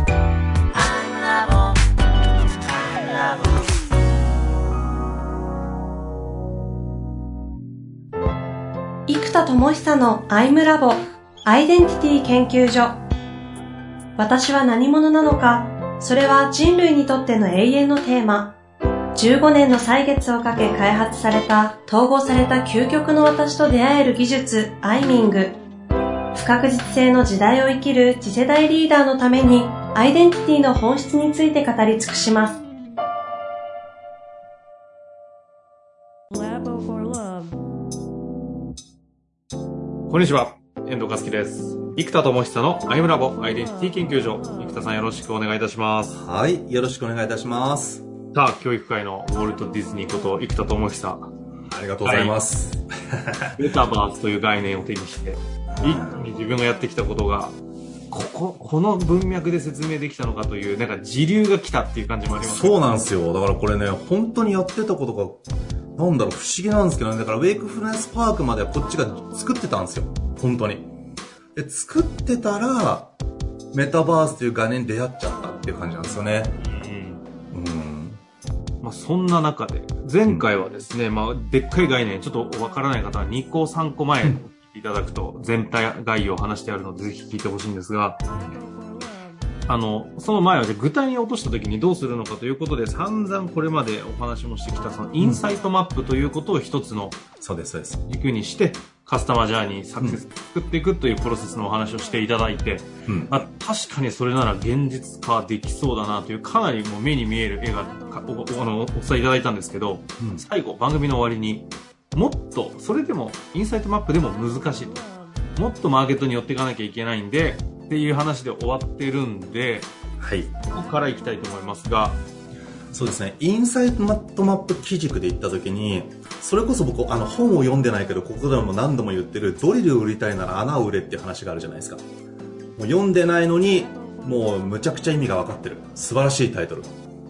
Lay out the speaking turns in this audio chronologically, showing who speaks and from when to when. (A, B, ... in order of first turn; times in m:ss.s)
0:00.8-0:01.6 A
0:03.0-0:03.5 A
0:09.1-0:13.0 A
0:14.2-0:18.6 A
0:19.2-0:25.6 A
0:26.3-0:32.6 A
0:40.1-0:46.2 B
0:46.1-0:48.0 C
0:48.3-0:51.3 B
0:51.7-0:53.6 C
0:52.0-0:52.4 B
0:53.6-0:57.6 B
0:55.8-0:56.2 C
0:58.1-1:02.8 B
1:02.4-1:05.4 C
1:06.0-1:10.9 C
1:11.6-1:13.1 C
1:13.7-1:16.5 C
1:16.6-1:17.2 B
1:17.5-1:18.2 C
1:18.8-1:28.2 B
1:29.7-1:37.2 B
1:35.2-1:35.4 C
1:37.4-1:38.0 C
1:38.1-1:59.9 B
1:43.1-1:43.4 C
2:00.2-2:00.5 C
2:00.7-2:02.2 B
2:02.9-2:12.0 C
2:12.8-2:16.9 C